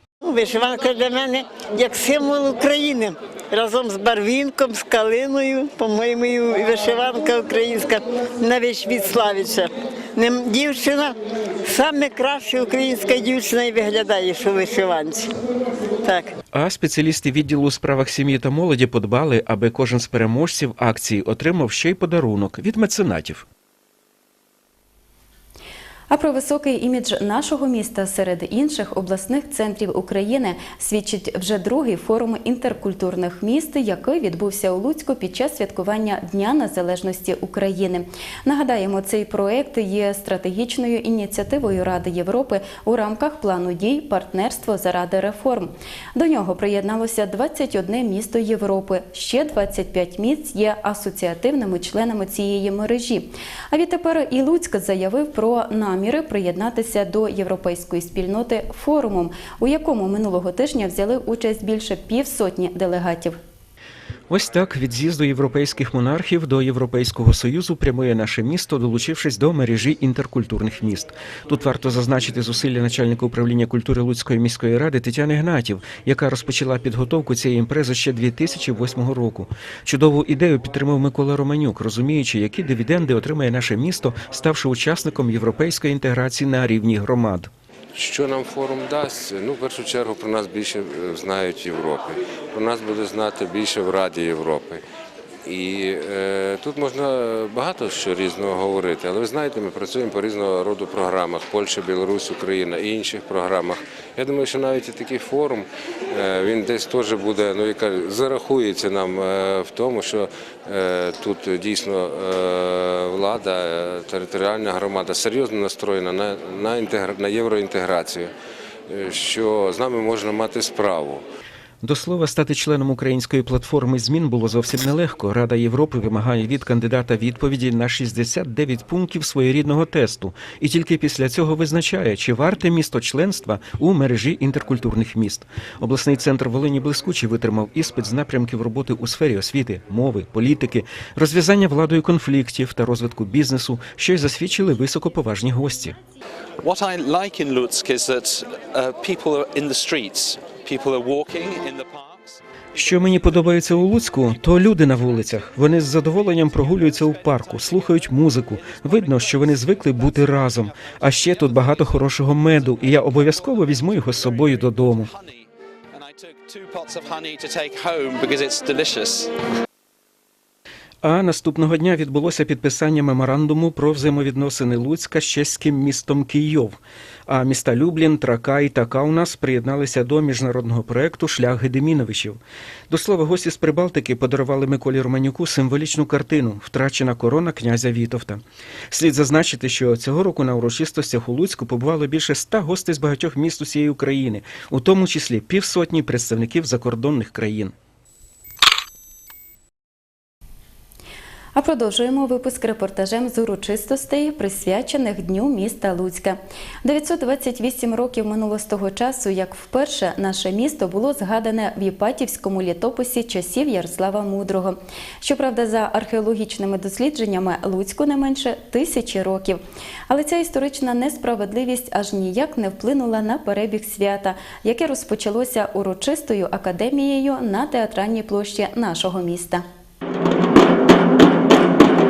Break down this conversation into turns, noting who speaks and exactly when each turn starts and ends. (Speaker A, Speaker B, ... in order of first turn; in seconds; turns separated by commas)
Speaker A: 0.2-15.3, Speaker A: 16.0-16.3, Speaker B: 16.5-23.4, Speaker C: 26.1-63.4, Speaker B: 64.3-87.5, Speaker D: 87.9-94.8, Speaker D: 95.4-118.3, Speaker D: 118.9-121.2, Speaker B: 121.8-146.0, Speaker E: 146.6-152.4, Speaker B: 152.7-165.1, Speaker E: 156.6-169.3, Speaker B: 171.0-197.7, Speaker C: 201.5-229.6